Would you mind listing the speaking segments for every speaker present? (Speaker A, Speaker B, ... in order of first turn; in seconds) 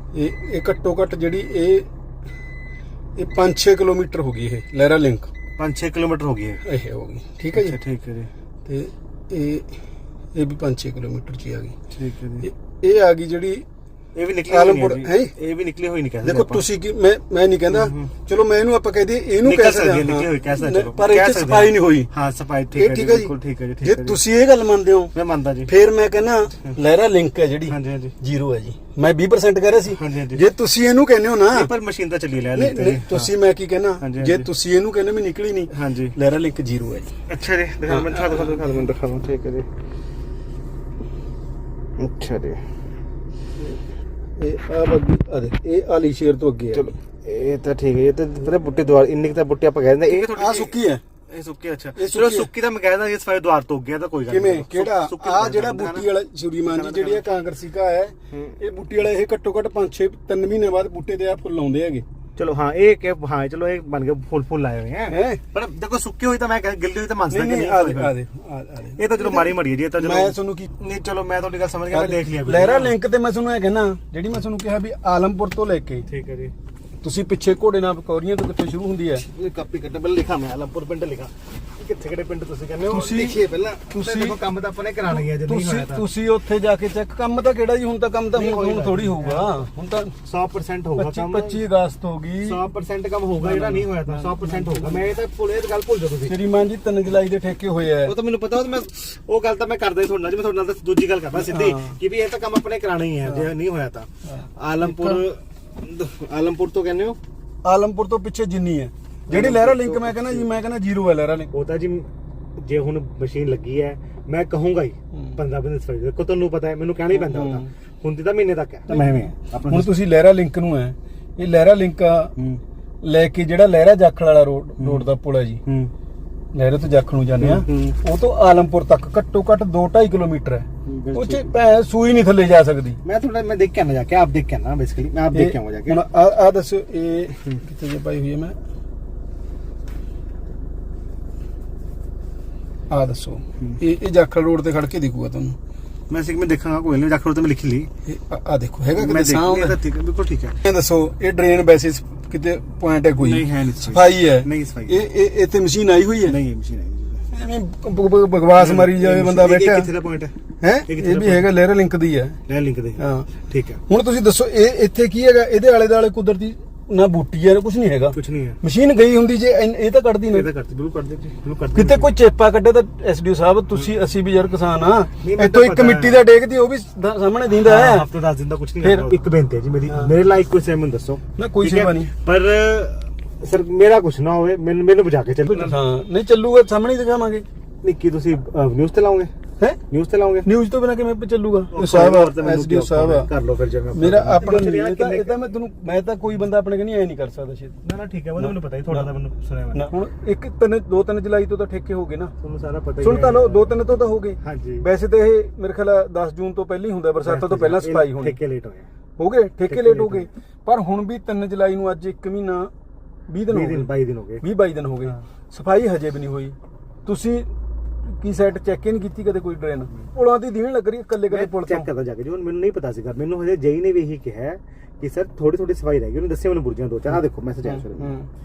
Speaker A: 0.1-1.9, 3.2-5.3, 6.7-7.8, 8.7-9.7, 10.3-11.8, 12.4-13.7, 14.5-15.3, 16.2-22.1, 22.7-25.1, 25.7-31.7, 32.5-37.1, 37.9-38.6, 44.4-46.9, 50.1-51.0, 52.0-52.5, 54.3-62.0, 65.1-65.4, 67.3-70.7, 71.9-76.1, 77.0-79.2, 82.9-84.4, 85.1-90.2, 91.0-92.6, 93.4-95.1, 96.2-98.2, 101.4-102.0, 104.3-105.2, 107.6-111.5, 117.1-117.7, 118.9-122.3, 123.0-125.6, 126.5-133.0, 135.3-138.6, 142.9-145.6, 148.1-149.8, 150.6-156.4, 157.3-159.9, 160.6-162.4, 163.0-163.3, 163.9-170.5, 171.7-178.1, 178.8-179.1, 179.9-180.2, 181.4-182.1, 185.5-187.4, 190.4-193.3, 193.9-197.8, 198.4-199.1, 199.7-202.3, 203.0-208.4, 209.2-212.7, 213.3-217.5, 218.1-221.9, 227.1-228.3
Speaker B: 5.6-6.6, 7.5-8.3, 11.9-12.5, 14.2-16.7, 17.7-18.1, 19.4-24.2, 25.1-25.7, 27.7-28.1, 29.8-30.5, 31.5-33.3, 34.0-34.5, 35.7-36.1, 37.3-39.7, 42.0-42.6, 46.7-56.1, 56.6-57.3, 62.4-68.2, 69.0-73.0, 76.1-76.5, 79.2-86.1, 88.3-89.6, 90.2-91.6, 92.4-96.4, 98.0-107.2, 109.3-110.5, 111.5-119.9, 124.8-125.1, 125.7-125.9, 127.4-128.0, 130.9-131.5, 133.0-136.0, 146.1-147.9, 149.0-150.6, 153.2-155.1, 156.3-157.2, 158.6-160.3, 160.9-161.5, 162.5-163.8, 168.1-168.6, 170.3-172.1, 175.2-176.2, 177.6-185.8, 187.8-189.3, 189.9-190.5, 191.7-195.4, 197.8-199.9, 202.4-203.8, 204.4-204.8, 207.2-208.9, 209.7-210.3, 213.5-214.4, 221.3-228.2